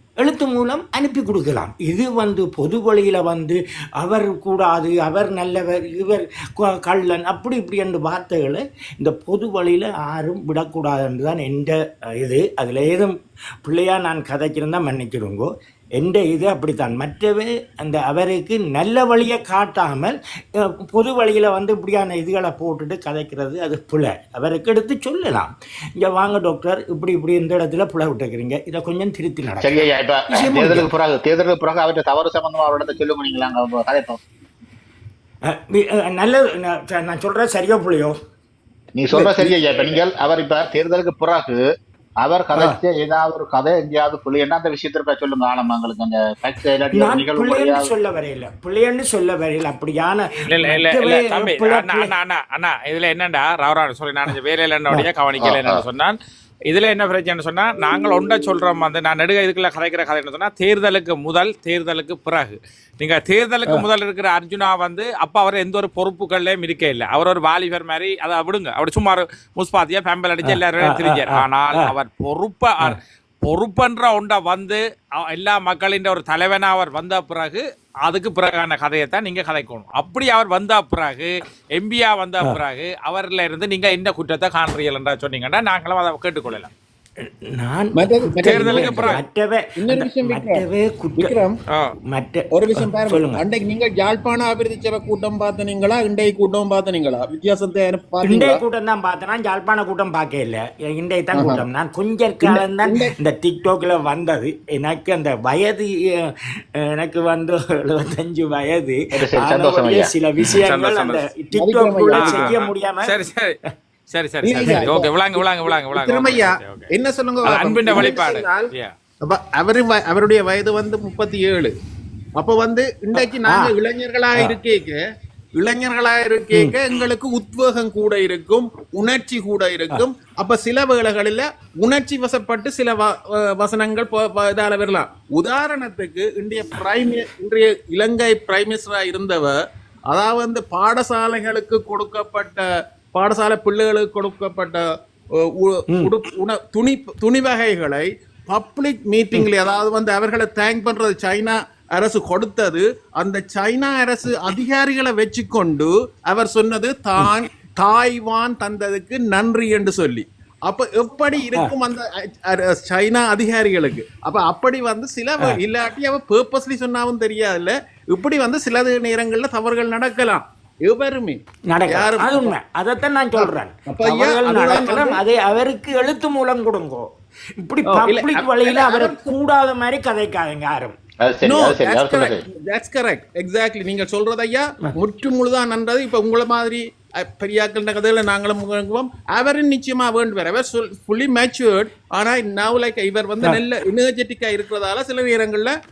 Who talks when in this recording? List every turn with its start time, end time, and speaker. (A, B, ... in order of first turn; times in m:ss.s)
0:00.2-0:30.8 A
0:29.6-0:34.2 B
0:35.4-0:38.2 A
0:38.9-0:41.6 B
0:39.1-0:39.5 A
0:42.2-0:47.9 B
0:46.9-0:52.1 A
0:50.5-0:56.2 C
0:55.4-0:55.8 B
0:56.7-1:26.7 C
1:10.4-1:11.9 A
1:27.3-1:31.3 A
1:27.9-1:29.2 D
1:28.4-1:29.2 C
1:29.8-1:30.6 D
1:31.2-1:31.6 D
1:32.1-1:33.4 A
1:32.5-1:38.6 D
1:38.2-1:53.2 A
1:41.3-1:41.6 D
1:42.4-1:43.1 D
1:49.2-1:50.1 B
1:50.5-1:51.3 C
1:51.5-1:52.5 D
1:52.1-1:53.5 C
1:54.1-1:56.9 C
1:54.4-1:58.7 D
1:54.6-1:54.9 A
1:57.4-1:58.9 C
1:59.2-2:01.7 D
2:02.4-2:05.0 D
2:03.2-2:03.7 A
2:05.5-2:19.5 D
2:20.1-2:52.5 D
2:51.7-3:01.0 A
2:53.4-2:55.2 D
2:57.8-2:59.3 D
3:01.2-3:02.4 B
3:01.4-3:15.7 D